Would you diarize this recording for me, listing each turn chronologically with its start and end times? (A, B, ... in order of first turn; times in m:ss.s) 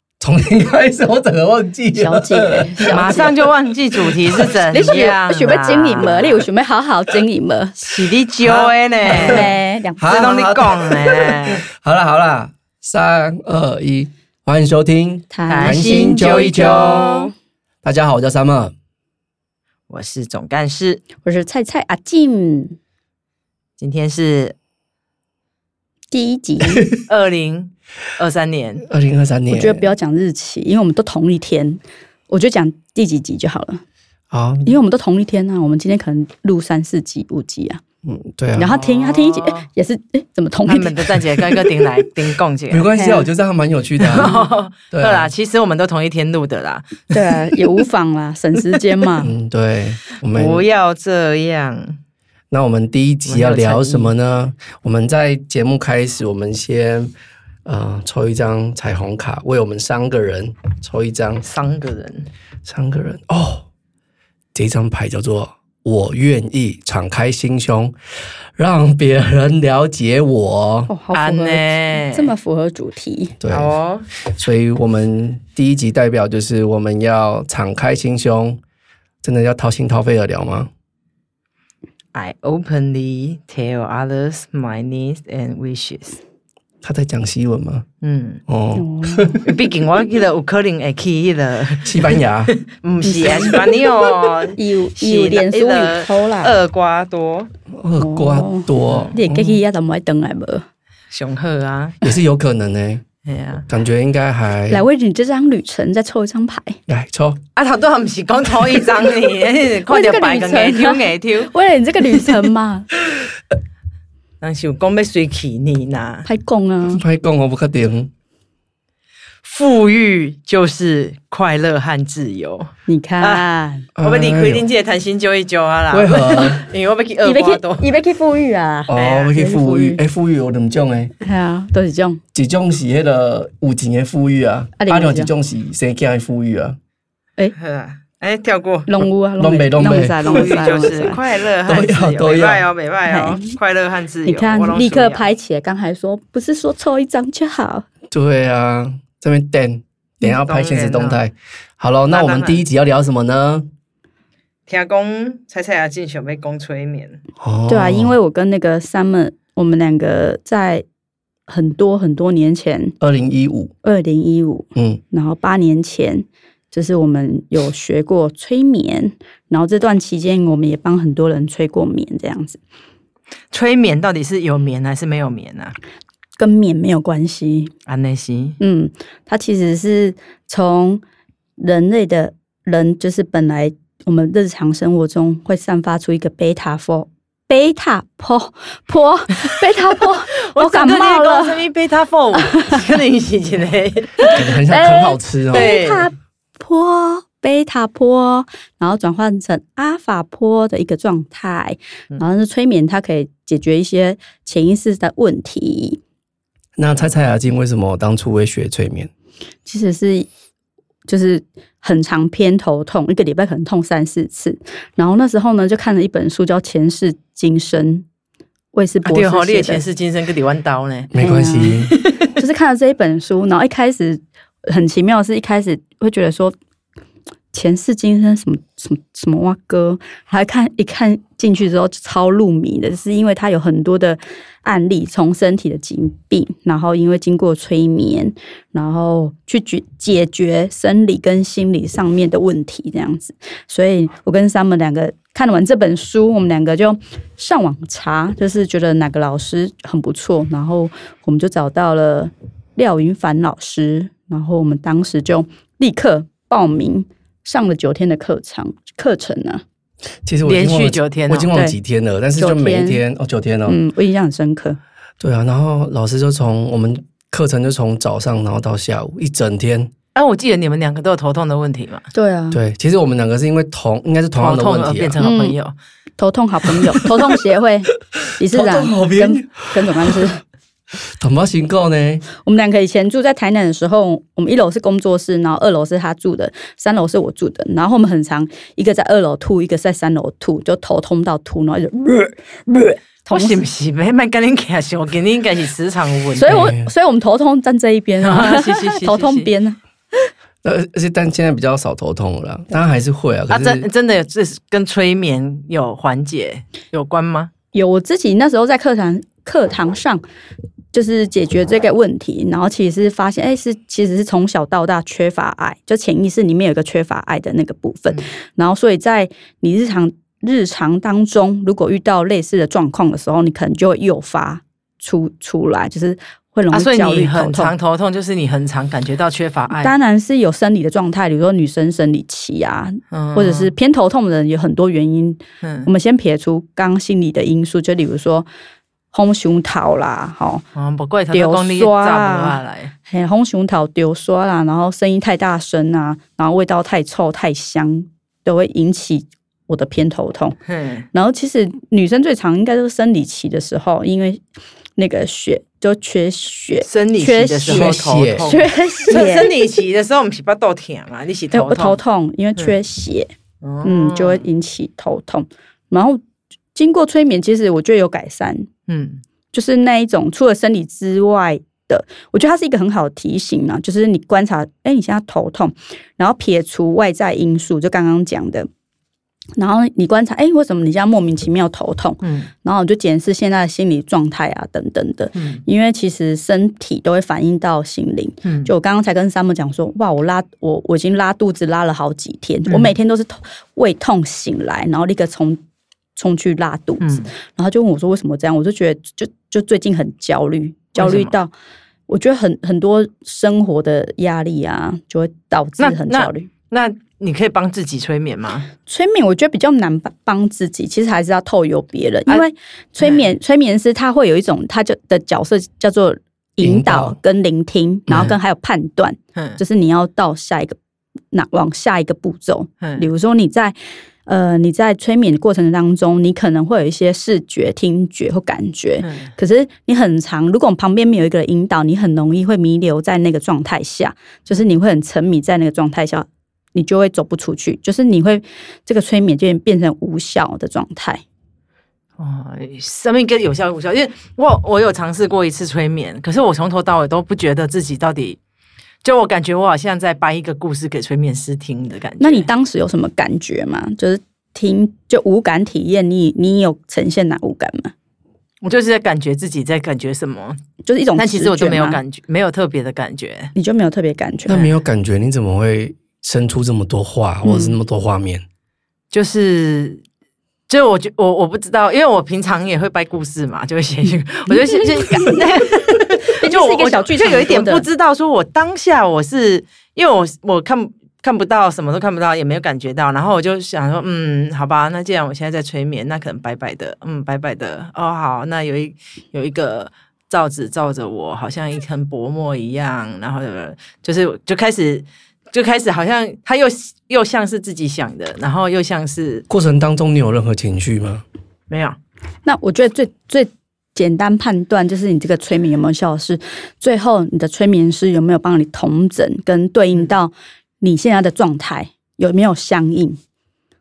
0:00.2-0:03.5 A
0:01.9-0:03.3 B
0:02.9-0:06.4 C
0:04.0-0:04.5 A
0:04.7-0:08.1 B
0:07.8-0:09.5 C
0:08.4-0:17.3 A
0:09.1-0:10.3 B
0:10.1-0:11.6 C
0:15.3-0:16.8 B
0:15.5-0:17.3 C
0:17.8-0:18.7 A
0:19.9-0:21.0 C
0:21.2-0:22.8 B
0:23.8-0:24.5 C
0:26.1-0:26.8 B
0:27.0-0:28.9 C
0:28.9-0:29.9 A
0:29.5-0:33.8 B
0:34.3-0:34.8 A
0:34.6-0:37.8 B
0:38.0-0:38.7 A
0:38.6-0:41.1 B
0:38.6-0:39.7 C
0:40.7-0:42.9 C
0:42.7-0:44.3 A
0:42.9-0:43.3 B
0:44.0-0:47.8 C
0:44.2-0:44.4 B
0:44.9-0:45.3 A
0:47.1-0:49.3 B
0:49.2-0:50.6 A
0:50.3-0:52.0 C
0:52.5-0:57.1 A
0:53.2-0:54.1 C
0:57.6-1:01.4 A
1:01.4-1:02.3 C
1:02.6-1:03.7 A
1:04.5-1:07.9 A
1:08.6-1:10.9 A
1:10.9-1:13.4 B
1:11.1-1:12.3 C
1:13.4-1:18.6 A
1:13.5-1:14.1 C
1:19.2-1:20.7 A
1:22.1-1:26.2 C
1:26.8-1:27.8 A
1:28.0-1:28.4 C
1:28.5-1:29.5 A
1:28.7-1:29.4 B
1:29.4-1:37.5 C
1:31.8-1:32.5 A
1:33.0-1:33.8 B
1:34.5-1:36.6 B
1:37.7-1:39.2 A
1:38.0-1:40.6 B
1:38.8-1:39.5 C
1:41.1-1:42.0 C
1:42.0-1:43.0 A
1:43.2-1:43.6 C
1:43.7-1:44.8 A
1:44.7-1:46.8 B
1:46.9-1:47.4 A
1:47.6-1:51.5 C
1:49.9-1:52.9 B
1:52.1-1:52.5 C
1:54.4-1:56.2 C
1:56.2-1:57.0 B
1:56.9-1:58.1 A
1:59.4-2:02.7 C
2:02.9-2:03.9 B
2:03.2-2:03.4 C
2:04.0-2:04.7 A
2:04.0-2:07.9 C
2:05.9-2:06.6 A
2:07.2-2:10.0 B
2:08.9-2:11.1 A
2:09.0-2:09.4 C
2:11.2-2:12.2 B
2:12.3-2:16.8 A
2:14.8-2:15.3 B
2:17.6-2:18.9 C
2:18.9-2:21.2 B
2:19.4-2:20.9 A
2:20.2-2:25.2 C
2:21.6-2:22.6 A
2:23.1-2:23.6 B
2:24.2-2:27.8 B
2:28.1-2:33.7 A
2:30.2-2:31.2 C
2:32.1-2:32.6 C
2:34.7-2:37.2 C
2:37.4-2:38.1 A
2:37.7-2:40.8 B
2:41.5-2:43.0 B
2:43.0-2:43.7 A
2:43.8-2:52.6 B
2:44.7-2:45.0 A
2:53.5-2:55.7 C
2:56.4-2:57.7 B
2:57.9-2:58.6 C
2:58.6-3:01.0 B
3:01.6-3:11.6 B
3:10.3-3:14.4 C
3:12.4-3:12.8 B
3:14.2-3:26.0 B
3:14.3-3:15.7 A
3:15.5-3:16.1 C
3:26.8-3:29.1 A
3:29.6-3:30.3 B
3:31.1-3:38.0 B
3:38.7-3:39.8 B
3:39.0-3:41.1 C
3:41.1-3:41.9 A
3:41.2-3:46.6 B
3:41.9-3:42.3 C
3:47.5-4:19.6 B
4:20.2-4:23.8 A
4:20.4-4:21.5 C
4:22.4-4:23.0 B
4:23.7-4:24.8 B
4:25.2-4:29.9 A
4:30.1-4:32.1 C
4:32.1-4:32.6 B
4:32.5-4:35.2 A
4:34.4-4:35.7 C
4:35.2-4:35.6 B
4:36.2-4:40.4 B
4:38.5-4:40.1 A
4:41.2-4:42.2 A
4:42.4-4:53.6 B
4:53.3-4:56.7 C
4:56.3-4:59.8 B
4:56.5-4:56.9 A
4:58.2-4:59.5 C
5:00.6-5:03.9 A
5:03.5-5:07.5 C
5:07.7-5:10.2 B
5:10.9-5:27.7 B
5:26.7-5:29.9 C
5:29.8-5:38.5 B
5:33.1-5:33.7 C
5:35.6-5:35.9 C
5:39.1-5:40.6 B
5:40.7-5:42.9 C
5:41.3-5:50.6 B
5:50.7-5:51.0 C
5:51.1-5:54.4 B
5:55.0-5:59.5 B
5:56.8-6:02.0 C
5:57.7-5:58.5 A
6:01.5-6:03.3 B
6:03.6-6:04.4 C
6:03.8-6:06.2 B
6:06.7-6:08.7 B
6:08.9-6:09.2 C
6:09.5-6:18.7 B
6:19.6-6:35.6 B
6:22.2-6:22.5 C
6:25.4-6:25.6 C
6:28.4-6:28.7 C
6:32.7-6:32.9 C
6:36.2-6:41.5 B
6:37.0-6:37.3 C
6:41.0-6:41.3 C
6:42.1-6:46.5 B
6:45.8-6:48.7 C
6:48.9-7:00.8 B
6:56.6-6:57.2 A
6:58.1-6:58.3 C
7:01.3-7:03.7 B
7:02.8-7:03.1 C
7:04.2-7:21.2 B
7:09.0-7:09.3 C
7:22.2-7:28.4 C
7:29.0-7:32.5 C
7:32.2-7:37.9 B
7:38.6-7:40.6 C
7:40.8-7:42.0 B
7:41.2-7:43.5 C
7:43.5-7:44.7 B
7:44.5-7:48.4 A
7:47.4-7:47.8 B
7:49.1-7:50.0 C
7:50.7-8:19.4 C
7:54.6-7:55.4 B
7:56.2-7:57.8 B
8:19.5-8:21.2 A
8:21.7-8:22.0 C
8:22.4-8:33.2 B